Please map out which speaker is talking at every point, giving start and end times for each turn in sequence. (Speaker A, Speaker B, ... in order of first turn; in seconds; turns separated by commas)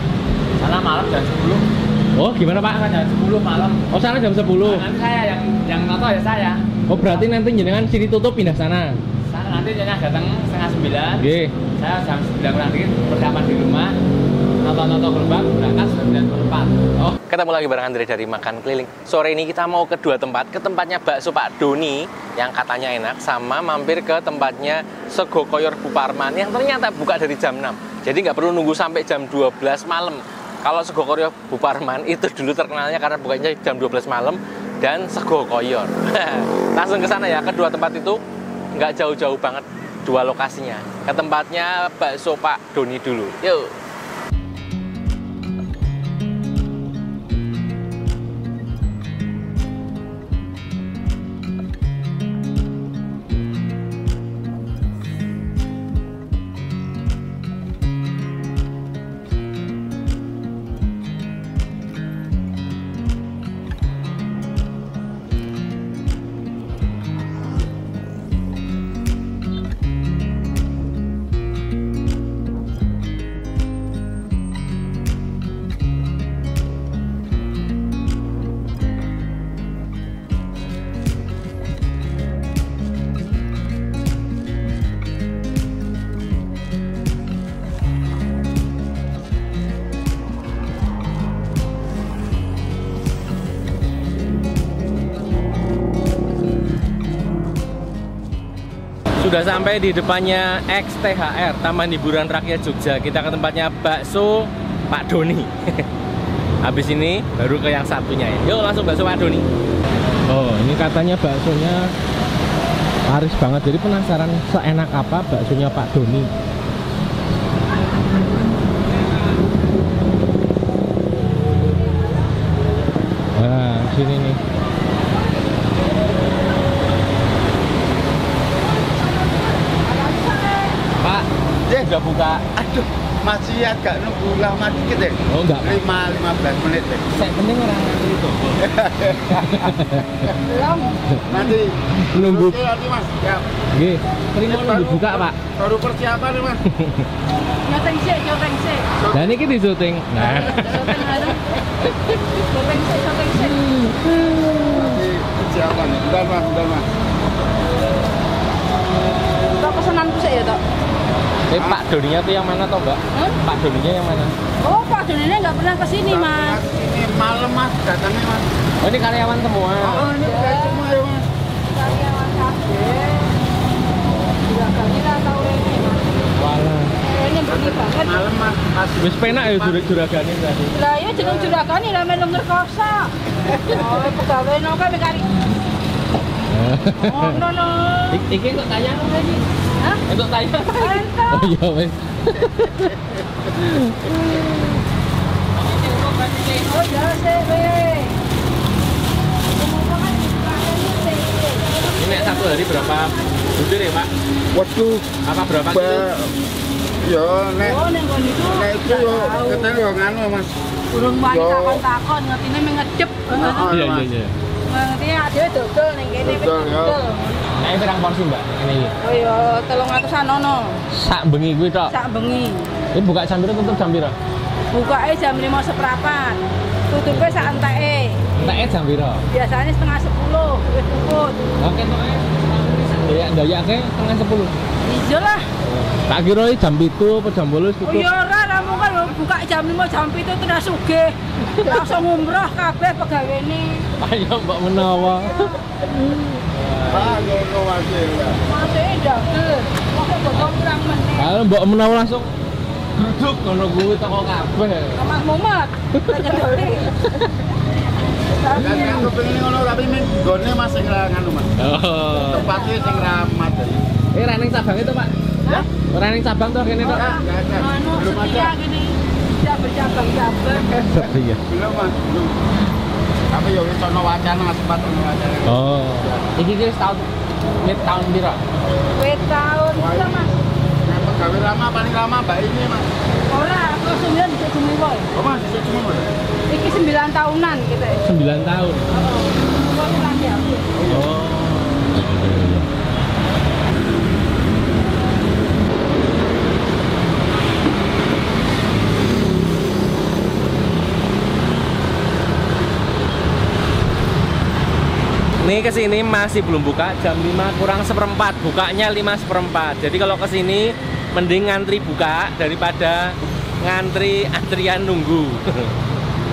Speaker A: 0.6-1.6, Speaker B: 2.1-2.8, Speaker A: 2.6-3.8, Speaker B: 3.9-4.8, Speaker A: 4.6-7.3, Speaker B: 6.9-9.0, Speaker A: 9.3-13.9, Speaker B: 11.2-11.5, Speaker A: 14.6-16.8, Speaker B: 17.0-38.2, Speaker B: 38.7-43.7, Speaker B: 99.2-105.8, Speaker B: 106.6-109.5, Speaker B: 110.3-111.9, Speaker B: 113.1-116.3, Speaker B: 123.3-124.4, Speaker C: 129.7-130.8, Speaker B: 131.0-131.3, Speaker D: 131.7-137.0, Speaker B: 131.9-132.3, Speaker B: 135.3-135.8, Speaker B: 137.1-138.6, Speaker D: 138.6-140.3, Speaker B: 139.2-140.3, Speaker C: 140.4-141.0, Speaker B: 141.1-141.5, Speaker D: 141.2-143.4, Speaker B: 142.1-142.6, Speaker B: 143.7-145.3, Speaker D: 144.4-146.6, Speaker B: 146.7-147.1, Speaker C: 147.6-148.8, Speaker D: 149.0-149.3, Speaker B: 149.1-151.3, Speaker C: 150.2-153.6, Speaker B: 151.8-152.2, Speaker B: 153.4-155.1, Speaker D: 154.7-156.8, Speaker C: 159.5-160.6, Speaker B: 161.5-164.3, Speaker C: 164.6-166.6, Speaker D: 166.0-168.5, Speaker B: 168.8-170.1, Speaker D: 169.8-171.3, Speaker C: 170.1-170.8, Speaker C: 171.7-173.4, Speaker C: 174.4-176.2, Speaker B: 176.3-176.9, Speaker C: 177.0-178.2, Speaker D: 177.5-179.8, Speaker B: 179.0-180.7, Speaker C: 180.7-183.1, Speaker C: 183.6-185.3, Speaker B: 186.5-187.4, Speaker C: 187.0-188.2, Speaker B: 188.1-189.4, Speaker B: 190.1-194.8, Speaker C: 190.7-191.5, Speaker B: 195.6-196.6, Speaker C: 196.6-198.2, Speaker C: 199.5-203.2, Speaker B: 201.9-204.1, Speaker D: 204.5-205.1, Speaker B: 205.2-206.1, Speaker D: 205.7-206.3, Speaker D: 207.0-207.8, Speaker C: 207.6-209.7, Speaker D: 208.4-210.5, Speaker C: 210.9-213.7, Speaker D: 211.2-211.8, Speaker D: 213.3-214.1, Speaker B: 213.6-214.3, Speaker C: 214.7-217.4, Speaker D: 216.2-217.0, Speaker B: 217.6-218.9, Speaker C: 219.0-220.8, Speaker B: 220.9-221.9, Speaker C: 221.9-222.7, Speaker B: 222.9-224.1, Speaker C: 224.7-228.2, Speaker B: 227.1-227.5, Speaker B: 228.3-229.2, Speaker C: 229.3-231.4, Speaker B: 231.6-234.5, Speaker C: 234.8-235.5, Speaker B: 235.6-238.1, Speaker C: 237.8-243.9, Speaker B: 241.6-241.9, Speaker B: 244.0-247.0, Speaker D: 246.9-248.4, Speaker C: 248.4-251.3, Speaker B: 251.2-252.3, Speaker B: 252.9-255.0, Speaker C: 254.9-257.0, Speaker B: 255.9-257.3, Speaker C: 258.3-259.1, Speaker D: 258.5-261.5, Speaker B: 261.6-262.5, Speaker D: 262.1-263.8, Speaker B: 264.1-265.1, Speaker B: 265.9-267.1, Speaker C: 266.8-270.8, Speaker D: 267.0-268.5, Speaker B: 270.7-271.4, Speaker D: 271.5-272.3, Speaker D: 273.3-276.2, Speaker B: 275.4-277.1, Speaker B: 277.6-278.4, Speaker C: 279.0-280.3, Speaker D: 279.8-280.2, Speaker D: 280.9-282.9, Speaker C: 283.3-285.1, Speaker D: 285.1-286.1, Speaker C: 286.5-288.0, Speaker B: 288.0-288.9, Speaker C: 288.9-290.7, Speaker D: 290.7-291.1, Speaker B: 290.9-292.7, Speaker B: 305.4-315.7